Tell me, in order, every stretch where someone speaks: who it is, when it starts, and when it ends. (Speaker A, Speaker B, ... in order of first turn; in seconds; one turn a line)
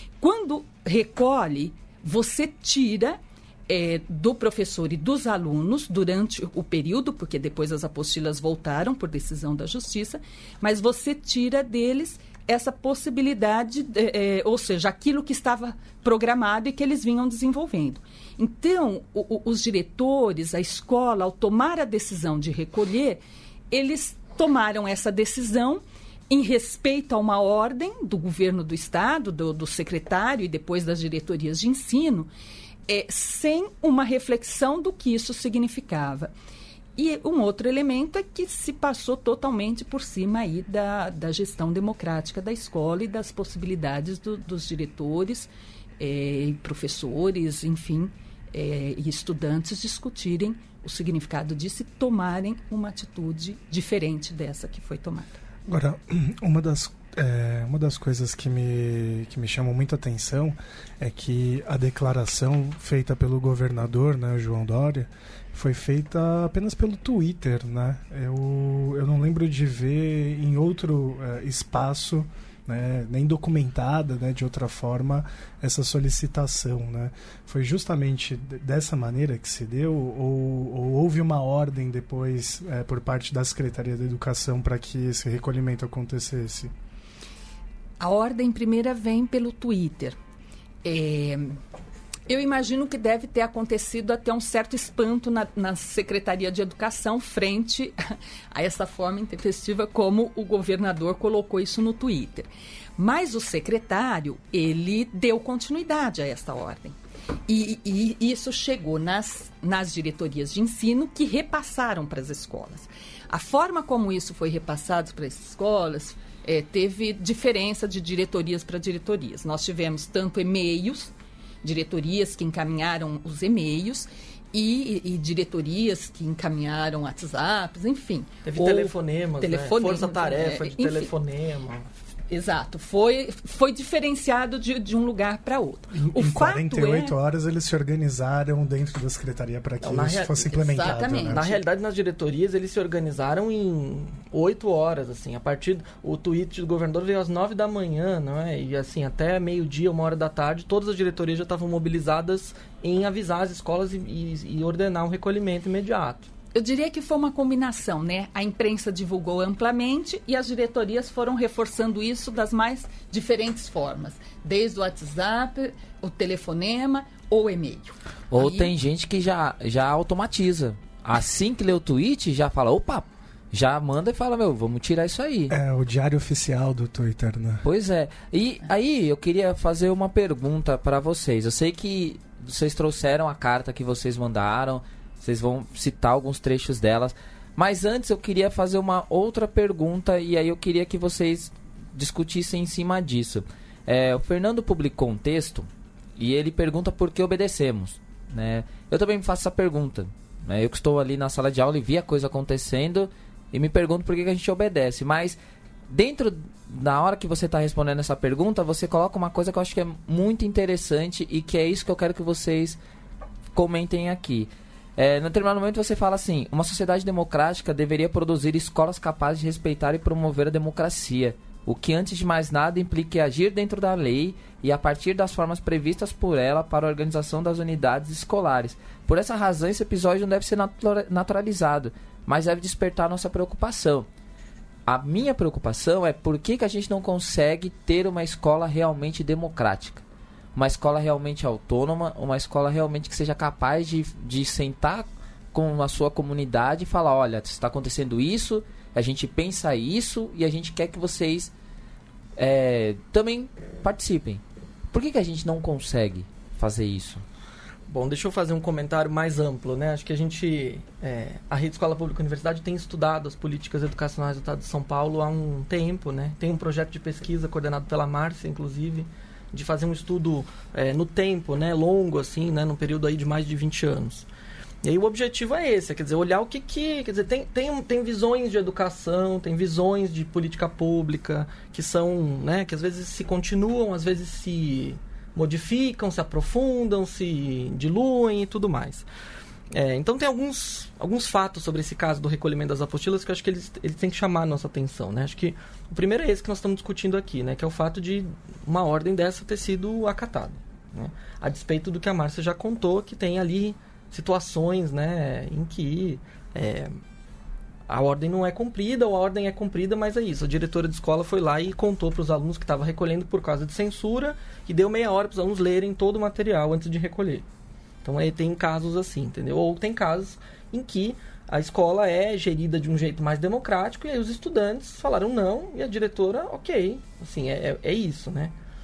Speaker A: 0.2-32.3
Speaker A: 32.9-36.3
Speaker A: 37.0-55.4
Speaker B: 55.7-86.7
Speaker A: 88.0-90.2
Speaker A: 90.8-91.6
Speaker A: 92.3-107.0
Speaker A: 107.5-131.1
Speaker C: 128.4-131.9
Speaker A: 132.3-137.1
Speaker B: 135.9-141.5
Speaker C: 139.8-156.3
Speaker A: 140.5-141.6
Speaker A: 156.5-168.7
Speaker D: 168.3-175.5
Speaker B: 175.5-177.6
Speaker D: 177.6-205.4
Speaker D: 205.9-212.8
Speaker D: 213.5-234.1
Speaker D: 234.9-240.0
Speaker D: 240.5-251.5
Speaker D: 252.4-257.2
Speaker C: 257.9-274.3
Speaker C: 274.8-289.1
Speaker C: 289.7-307.0
Speaker C: 307.9-317.4
Speaker C: 318.0-328.5